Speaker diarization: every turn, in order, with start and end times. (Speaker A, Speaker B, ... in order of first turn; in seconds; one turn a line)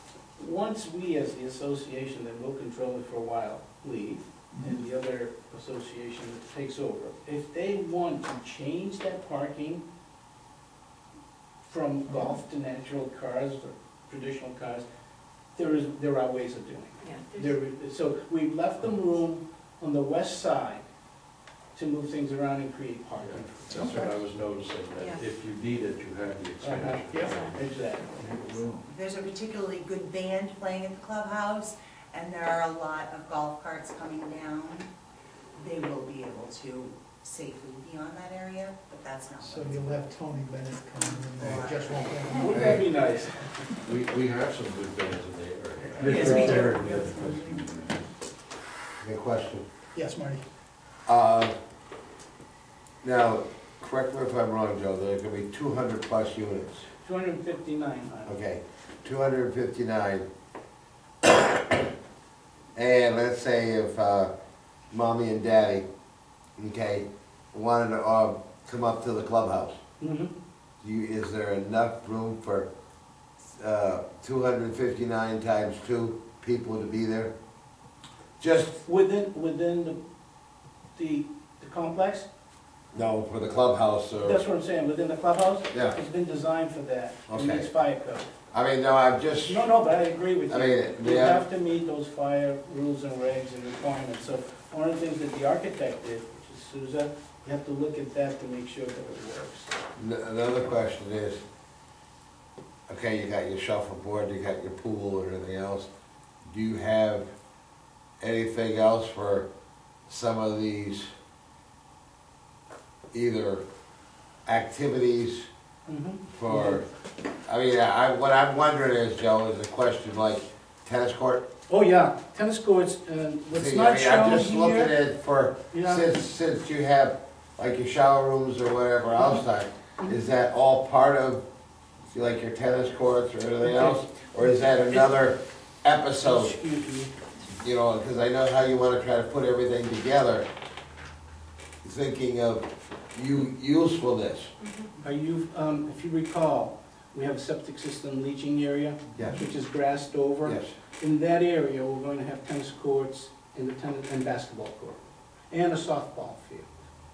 Speaker A: 0.4-9.8
Speaker A: 11.7-14.9
Speaker A: 15.6-20.8
Speaker A: 21.8-24.0
Speaker B: 23.2-27.6
Speaker C: 23.8-24.0
Speaker A: 26.6-28.2
Speaker B: 28.2-28.8
Speaker D: 28.9-34.9
Speaker D: 35.6-40.0
Speaker C: 39.5-42.4
Speaker D: 41.0-42.8
Speaker A: 42.4-43.5
Speaker E: 42.5-42.8
Speaker B: 43.9-48.0
Speaker D: 46.0-47.6
Speaker A: 46.0-46.7
Speaker E: 49.0-49.6
Speaker C: 49.9-50.4
Speaker E: 51.1-51.5
Speaker E: 53.0-56.9
Speaker A: 57.0-58.4
Speaker E: 58.3-60.3
Speaker E: 61.2-61.8
Speaker E: 62.8-64.3
Speaker E: 64.9-65.8
Speaker E: 66.6-69.8
Speaker A: 70.0-70.3
Speaker E: 70.8-72.7
Speaker E: 73.5-77.3
Speaker E: 78.4-78.8
Speaker A: 78.8-80.0
Speaker A: 81.0-82.3
Speaker E: 82.9-84.4
Speaker A: 84.2-88.3
Speaker E: 85.7-86.0
Speaker E: 87.3-87.7
Speaker E: 88.5-89.7
Speaker A: 89.4-99.7
Speaker E: 90.5-91.4
Speaker E: 100.0-101.4
Speaker E: 102.9-105.9
Speaker E: 106.5-107.3
Speaker E: 108.2-109.5
Speaker E: 110.1-111.1
Speaker E: 113.1-113.6
Speaker E: 114.5-115.5
Speaker A: 115.9-116.8
Speaker E: 116.4-116.9
Speaker E: 117.5-121.4
Speaker A: 121.7-125.0
Speaker E: 123.5-131.4
Speaker A: 125.7-126.1
Speaker E: 132.1-136.5
Speaker A: 133.6-134.0
Speaker A: 134.9-135.1
Speaker A: 136.2-137.1
Speaker E: 137.6-140.5
Speaker E: 141.8-144.5
Speaker A: 145.0-155.0
Speaker E: 150.4-150.7
Speaker A: 155.5-156.7